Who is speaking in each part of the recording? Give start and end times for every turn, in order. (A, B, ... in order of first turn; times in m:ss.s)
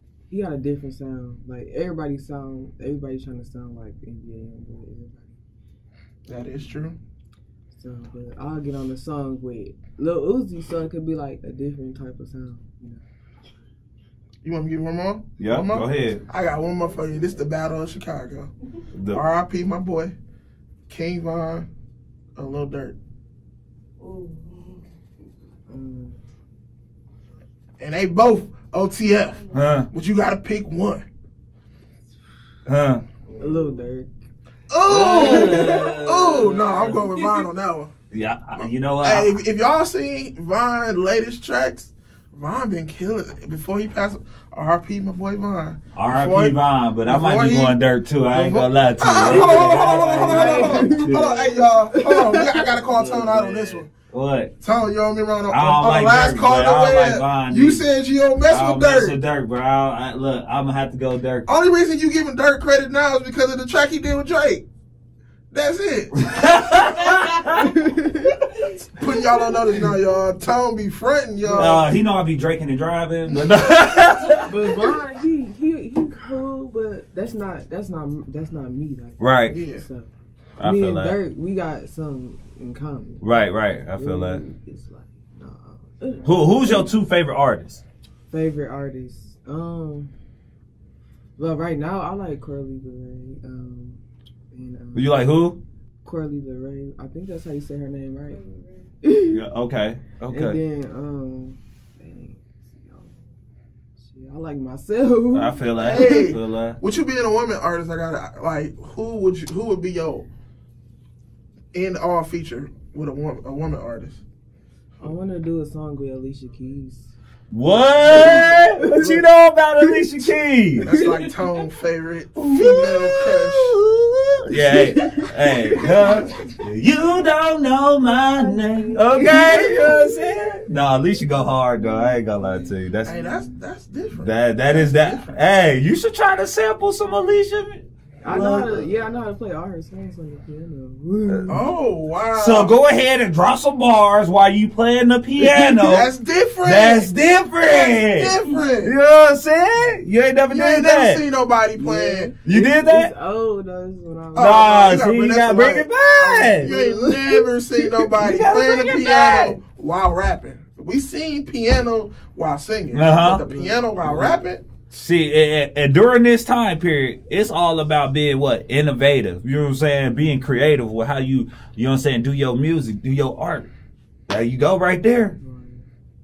0:00.3-0:05.4 A
0:06.3-0:07.0 B
0:07.7-0:13.0 A
0:14.4-0:18.5 B
0:15.4-0:16.2 C
0:18.9-0:19.2 C
0:19.1-0:20.1 B
0:20.9-0:21.7 B
0:22.4-0:23.0 B
0:25.7-0:26.2 A
0:27.8-0:31.0 B
0:29.5-0:29.9 C
0:32.6-0:33.0 C
0:33.4-0:34.1 A
0:34.7-0:37.9 B
0:34.8-0:37.0 C
0:34.9-0:35.9 A
0:38.1-0:39.3 C
0:38.6-0:47.8 B
0:45.9-0:51.5 C
0:48.3-0:53.9 B
0:49.6-0:51.3 A
0:51.9-0:52.5 A
0:52.6-0:54.5 C
0:54.6-0:59.2 B
0:55.5-0:57.9 C
0:58.5-1:01.5 C
1:01.4-1:04.6 B
1:05.5-1:06.2 B
1:06.3-1:07.6 C
1:07.6-1:08.4 A
1:09.0-1:11.8 B
1:11.4-1:11.8 A
1:11.6-1:14.5 C
1:14.4-1:23.4 A
1:19.2-1:19.6 C
1:19.5-1:19.8 B
1:20.6-1:21.2 C
1:23.2-1:24.4 C
1:24.0-1:26.9 A
1:26.2-1:27.8 C
1:28.3-1:30.1 A
1:31.4-1:35.2 A
1:34.9-1:35.6 C
1:36.0-1:39.4 A
1:39.2-1:40.6 C
1:40.3-1:43.3 A
1:44.0-1:46.3 A
1:45.3-1:46.8 C
1:45.8-1:50.3 B
1:51.7-1:54.2 B
1:55.0-1:57.1 A
1:57.5-2:00.9 C
1:58.0-1:59.2 A
2:00.8-2:03.8 B
2:02.4-2:13.4 C
2:04.6-2:06.0 A
2:08.3-2:10.2 A
2:12.0-2:12.5 A
2:13.0-2:15.4 B
2:14.1-2:18.9 C
2:18.2-2:21.6 A
2:21.3-2:21.6 C
2:21.5-2:22.8 B
2:22.3-2:31.2 C
2:25.4-2:27.1 B
2:27.9-2:28.9 B
2:30.5-2:32.3 B
2:31.8-2:35.0 A
2:32.4-2:33.1 C
2:34.3-2:44.8 B
2:34.4-2:36.8 C
2:36.6-2:37.3 A
2:38.1-2:39.6 C
2:42.9-2:43.4 C
2:43.4-2:44.2 A
2:44.0-2:44.3 C
2:44.9-2:53.7 C
2:54.3-2:55.4 C
2:55.4-2:55.9 A